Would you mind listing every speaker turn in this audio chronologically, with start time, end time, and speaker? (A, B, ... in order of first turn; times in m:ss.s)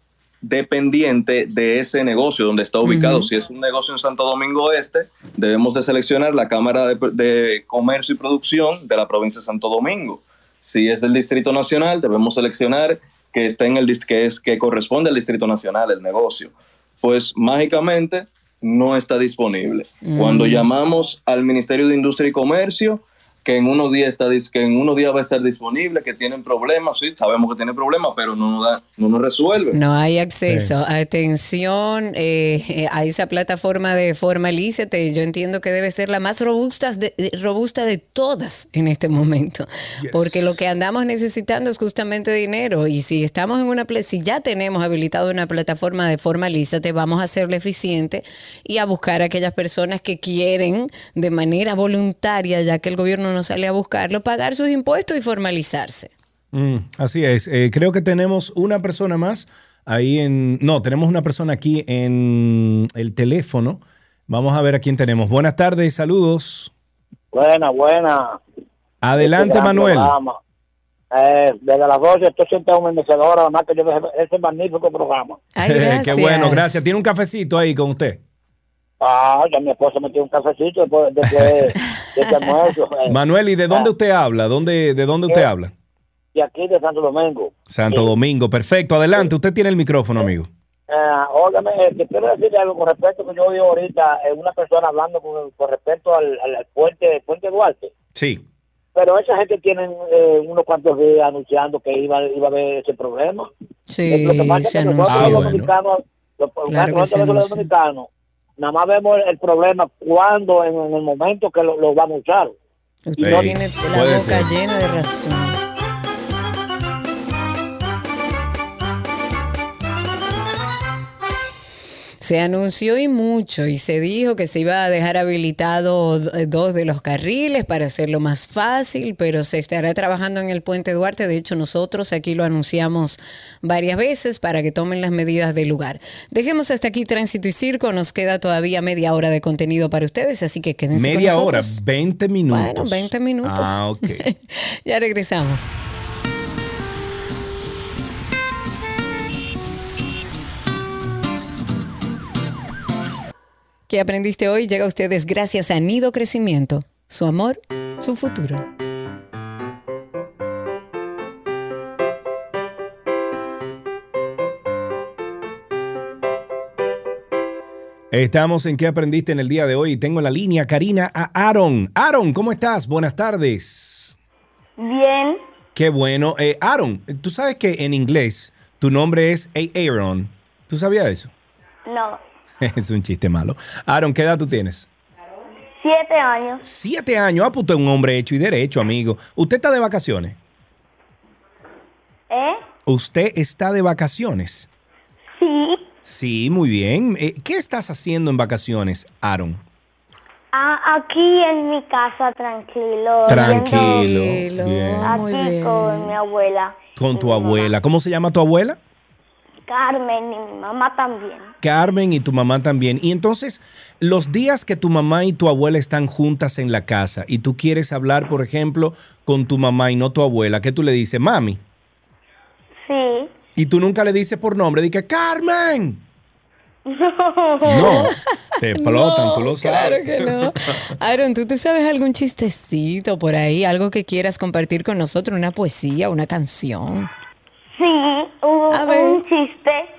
0:00.4-0:29.8 A
0:02.8-0:03.3 B
0:20.0-0:20.6 B
0:29.7-0:56.1 B
0:30.5-0:30.7 C
0:40.0-0:40.6 C
0:56.5-1:06.7 C
1:07.3-1:08.4 D
1:09.0-1:10.1 C
1:09.2-1:10.4 D
1:11.1-1:15.4 D
1:15.5-1:16.8 B
1:15.6-1:18.2 C
1:19.0-1:23.2 D
1:21.3-1:21.7 C
1:21.8-1:22.5 B
1:23.1-1:25.7 C
1:26.3-1:28.1 D
1:27.7-1:30.5 C
1:30.9-1:37.9 D
1:38.1-1:38.4 C
1:38.9-1:43.5 D
1:43.9-1:45.6 B
1:44.0-1:48.1 D
1:45.1-1:45.7 C
1:46.7-1:47.7 B
1:48.6-1:52.6 D
1:53.1-1:55.6 B
1:53.2-1:54.5 C
2:02.2-2:21.8 B
2:20.9-2:24.2 C
2:22.5-2:25.7 B
2:33.9-2:38.6 B
2:48.1-2:54.2 C
2:54.8-2:55.4 E
2:55.7-3:01.3 C
3:01.9-3:02.2 E
3:02.6-3:04.9 C
3:05.8-3:06.6 E
3:06.6-3:10.4 C
3:12.3-3:12.6 E
3:12.8-3:14.7 C
3:15.4-3:15.8 E
3:16.0-3:19.6 C
3:20.5-3:24.0 E
3:23.2-3:25.2 C
3:23.3-3:26.1 B
3:25.0-3:27.7 E
3:27.0-3:28.8 C
3:29.7-3:31.5 E
3:31.6-3:41.6 C
3:42.8-3:43.3 E
3:43.6-3:46.0 C
3:47.0-3:47.9 E
3:47.6-3:50.9 C
3:47.6-3:48.1 B
3:48.7-3:57.1 B
3:57.8-3:59.9 E
3:58.7-3:59.2 B